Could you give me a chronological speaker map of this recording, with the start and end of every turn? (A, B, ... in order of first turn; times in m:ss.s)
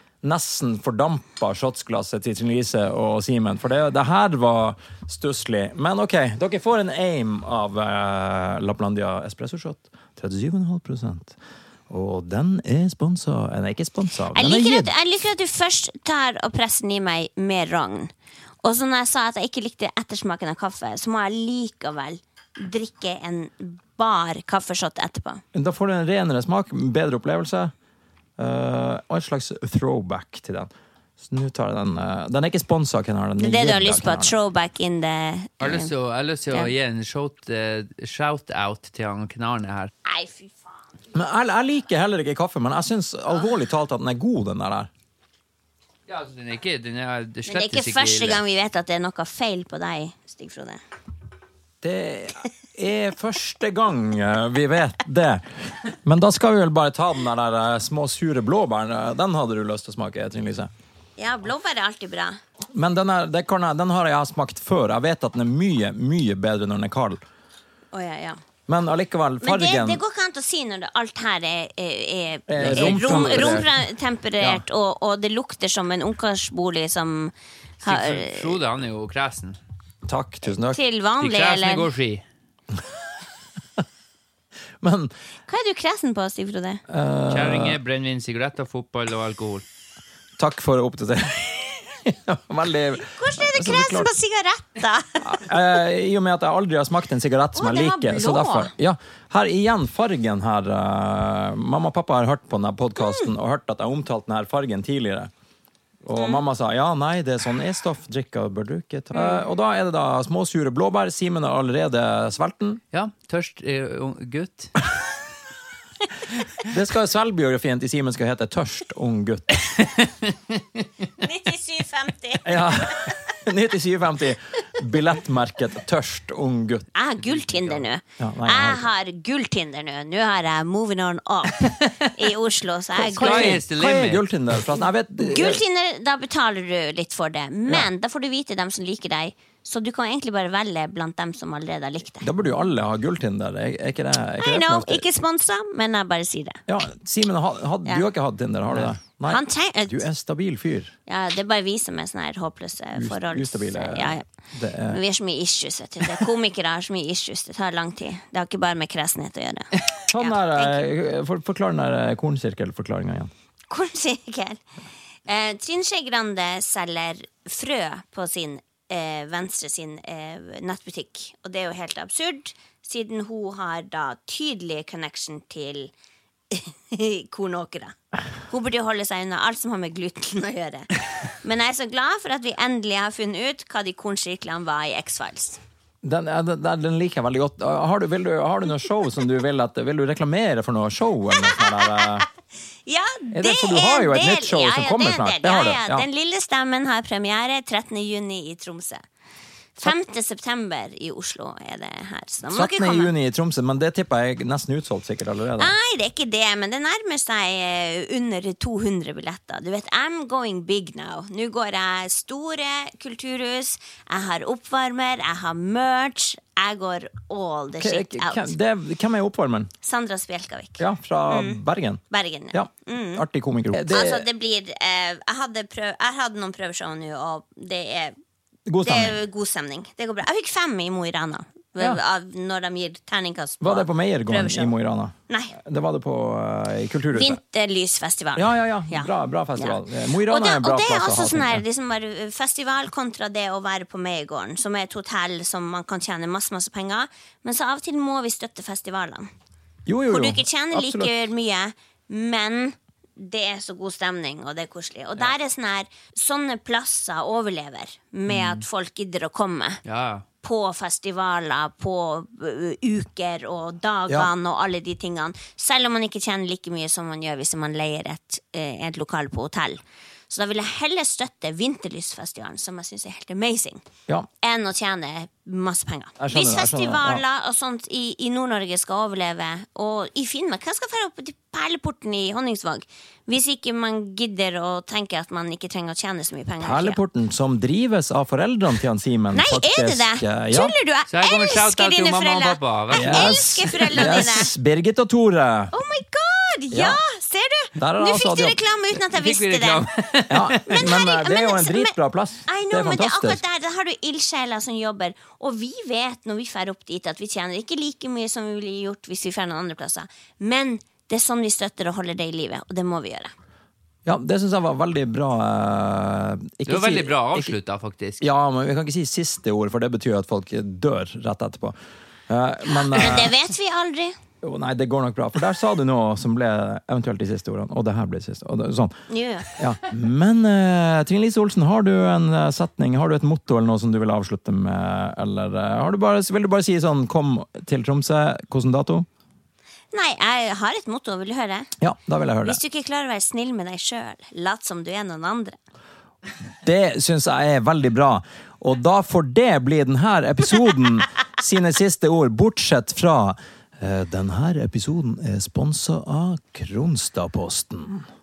0:00.2-0:11.4 A
0:11.9-0:14.9 A
0:14.3-0:18.1 B
0:18.6-0:25.4 B
0:25.5-0:27.7 A
0:28.4-0:34.3 A
0:33.4-0:35.9 B
0:35.6-0:39.9 C
0:40.0-0:40.7 B
0:41.1-0:44.9 A
0:46.1-0:48.4 C
0:47.5-0:50.8 B
0:51.8-1:00.7 A
1:01.2-1:02.4 B
1:02.7-1:07.2 A
1:07.9-1:08.4 B
1:08.7-1:10.0 A
1:09.4-1:18.6 B
1:12.5-1:13.7 A
1:12.6-1:13.6 C
1:17.8-1:19.6 C
1:20.0-1:20.8 A
1:20.6-1:21.9 B
1:21.2-1:22.2 C
1:24.8-1:25.1 A
1:25.5-1:26.8 B
1:26.9-1:27.8 A
1:27.3-1:29.6 C
1:30.4-1:34.1 A
1:33.2-1:35.4 B
1:35.2-1:45.3 A
1:37.6-1:38.7 B
1:43.0-1:43.3 B
1:46.0-1:52.8 A
1:46.1-1:46.4 B
1:49.1-1:49.4 B
1:52.9-1:54.8 C
1:56.6-1:59.7 A
1:59.8-2:00.6 C
2:01.2-2:03.2 B
2:02.4-2:06.9 A
2:06.9-2:13.6 B
2:08.2-2:08.9 A
2:11.8-2:12.1 C
2:13.0-2:14.3 C
2:13.1-2:15.6 A
2:15.2-2:22.3 B
2:22.2-2:25.1 A
2:24.4-2:26.6 B
2:26.7-2:30.9 A
2:28.8-2:30.0 B
2:31.1-2:34.2 B
2:32.9-2:35.0 A
2:34.9-2:40.8 B
2:40.1-2:43.3 A
2:43.7-2:44.6 B
2:45.2-2:55.9 B
2:56.5-2:58.0 B
2:58.5-3:05.6 B
3:06.0-3:12.3 A
3:11.6-3:12.2 B
3:12.8-3:19.0 B
3:13.3-3:16.0 A
3:19.8-3:23.1 B
3:22.5-3:25.7 A
3:25.6-3:38.5 B
3:37.8-3:39.7 A
3:39.8-3:41.6 B
3:40.8-3:44.3 A
3:42.1-3:48.1 B
3:48.7-3:49.2 A
3:48.8-3:54.7 B
3:53.6-3:57.4 A
3:55.3-3:55.5 B
3:57.1-4:09.3 B
3:58.4-4:01.6 A
4:09.8-4:11.1 A
4:10.1-4:19.8 B
4:18.3-4:18.6 C
4:19.8-4:20.2 C
4:20.4-4:33.8 B
4:34.4-4:47.0 B
4:36.2-4:37.2 A
4:46.6-4:50.8 A
4:49.3-4:54.5 B
4:51.1-4:54.0 C
4:52.9-4:55.7 A
4:55.7-4:59.9 B
4:56.7-4:57.0 A
4:57.8-4:58.6 A
4:59.1-5:00.9 C
5:00.3-5:03.4 A
5:00.6-5:01.9 B
5:02.5-5:13.3 B
5:14.0-5:17.5 A
5:16.7-5:18.2 C
5:18.2-5:21.7 A
5:22.3-5:23.4 A
5:22.7-5:24.2 B
5:24.4-5:28.9 A
5:29.1-5:29.5 B
5:29.6-5:39.1 A
5:39.9-5:41.7 B
5:41.8-5:42.6 A
5:42.4-5:45.6 B
5:46.6-5:58.1 A